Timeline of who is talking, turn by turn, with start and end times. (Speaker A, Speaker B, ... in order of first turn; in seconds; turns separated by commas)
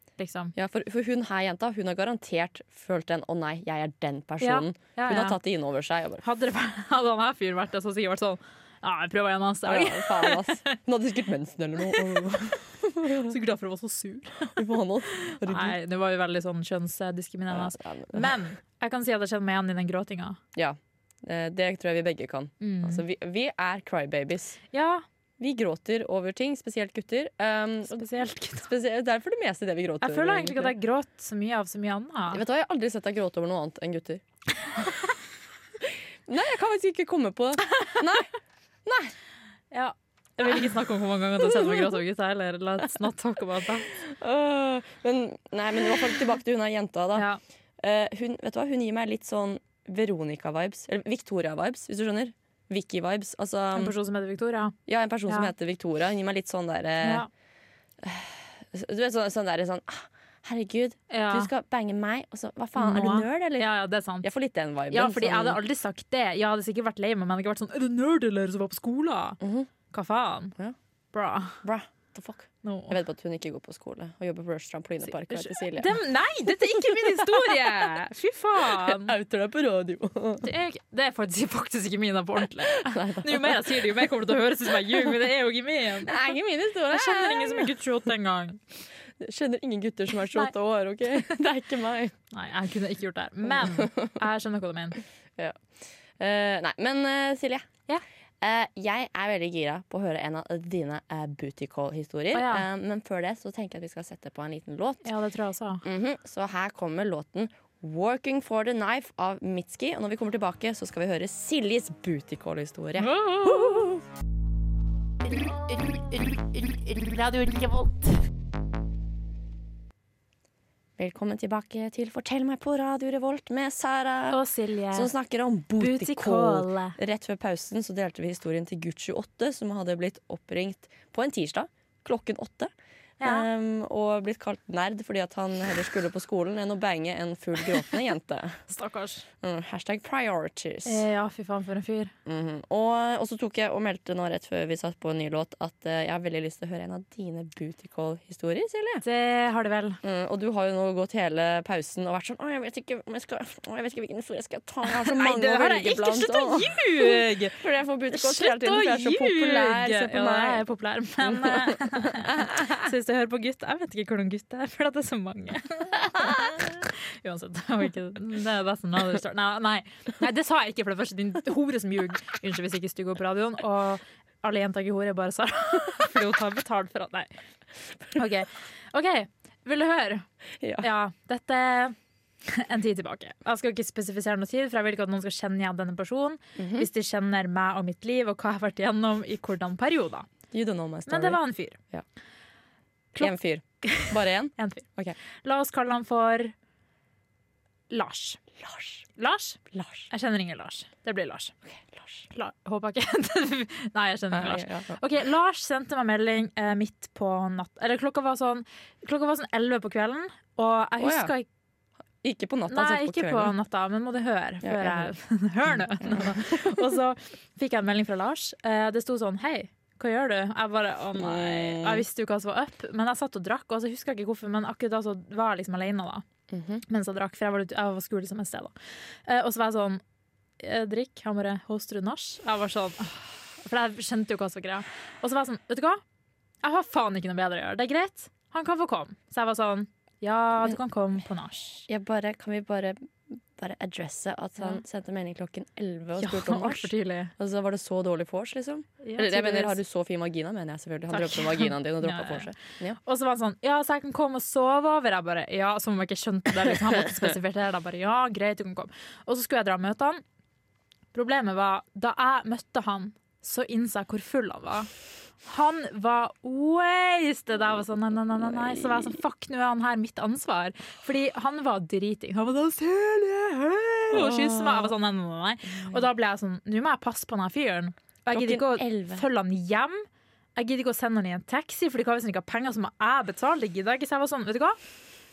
Speaker A: 0.2-0.5, Speaker B: 0.6-6.2, Speaker A: 4.4-5.4, Speaker A: 6.2-10.7, Speaker B: 9.7-13.4, Speaker A: 11.9-12.3, Speaker A: 13.1-14.7, Speaker B: 14.5-15.8, Speaker A: 15.2-20.4, Speaker B: 17.5-18.3, Speaker B: 20.6-24.6, Speaker A: 22.6-23.0, Speaker A: 24.7-25.0, Speaker B: 25.4-30.8, Speaker A: 27.9-28.7, Speaker A: 30.0-32.4, Speaker B: 32.3-34.2, Speaker B: 35.8-38.3, Speaker B: 38.9-39.1, Speaker A: 39.7-43.9, Speaker B: 41.4-41.8, Speaker B: 43.9-47.3, Speaker A: 47.1-47.4, Speaker B: 47.8-54.0, Speaker A: 53.7-54.8, Speaker B: 54.9-57.2, Speaker A: 57.0-57.3, Speaker B: 58.0-63.7, Speaker A: 61.1-61.5, Speaker A: 62.8-64.3, Speaker B: 64.2-65.6, Speaker A: 64.9-69.4, Speaker B: 69.4-69.7, Speaker A: 69.9-70.5, Speaker A: 71.1-71.6, Speaker B: 71.6-78.0, Speaker A: 72.6-73.0, Speaker A: 75.1-79.1, Speaker B: 78.6-80.5, Speaker A: 80.4-86.2, Speaker B: 82.7-84.2, Speaker B: 84.8-85.2, Speaker B: 86.0-87.8, Speaker A: 86.9-88.6, Speaker B: 89.2-92.2, Speaker A: 92.3-95.0, Speaker B: 93.5-94.2, Speaker B: 95.4-97.7, Speaker B: 98.4-105.1, Speaker A: 102.3-102.7, Speaker A: 105.0-105.8, Speaker B: 105.8-114.0, Speaker A: 113.0-113.9, Speaker B: 115.4-118.2, Speaker B: 121.0-138.6, Speaker A: 124.3-125.1, Speaker A: 125.8-127.0, Speaker A: 133.2-133.5, Speaker A: 138.7-139.3, Speaker B: 139.4-141.1, Speaker A: 140.8-142.1, Speaker B: 142.2-149.0, Speaker A: 149.0-150.0, Speaker B: 150.0-160.7, Speaker A: 154.8-157.6, Speaker A: 158.1-177.3, Speaker B: 161.2-162.7, Speaker A: 178.2-180.3, Speaker B: 180.6-180.9, Speaker A: 180.8-190.3, Speaker B: 186.6-186.9, Speaker B: 190.5-192.1, Speaker A: 191.1-191.8, Speaker A: 193.2-194.9, Speaker B: 193.2-195.2, Speaker A: 195.4-196.5, Speaker A: 197.9-198.4, Speaker B: 198.6-199.0, Speaker A: 199.2-201.5, Speaker B: 199.7-200.1, Speaker B: 201.7-202.3, Speaker A: 202.3-211.5, Speaker B: 204.3-205.0, Speaker B: 211.0-211.3, Speaker B: 212.2-213.5, Speaker A: 212.7-226.2, Speaker B: 214.6-215.1, Speaker B: 215.7-216.8, Speaker B: 221.2-222.1, Speaker B: 226.5-226.8, Speaker A: 226.9-228.7, Speaker A: 229.3-230.0, Speaker A: 230.6-236.0, Speaker A: 236.6-241.8, Speaker B: 241.9-253.0, Speaker A: 246.2-247.3, Speaker A: 249.0-249.8, Speaker A: 251.1-252.5, Speaker A: 253.0-260.2, Speaker A: 261.1-264.9, Speaker A: 265.4-280.1, Speaker B: 268.6-269.0, Speaker B: 274.1-274.9, Speaker B: 275.7-276.1, Speaker B: 278.3-279.3, Speaker A: 280.6-284.8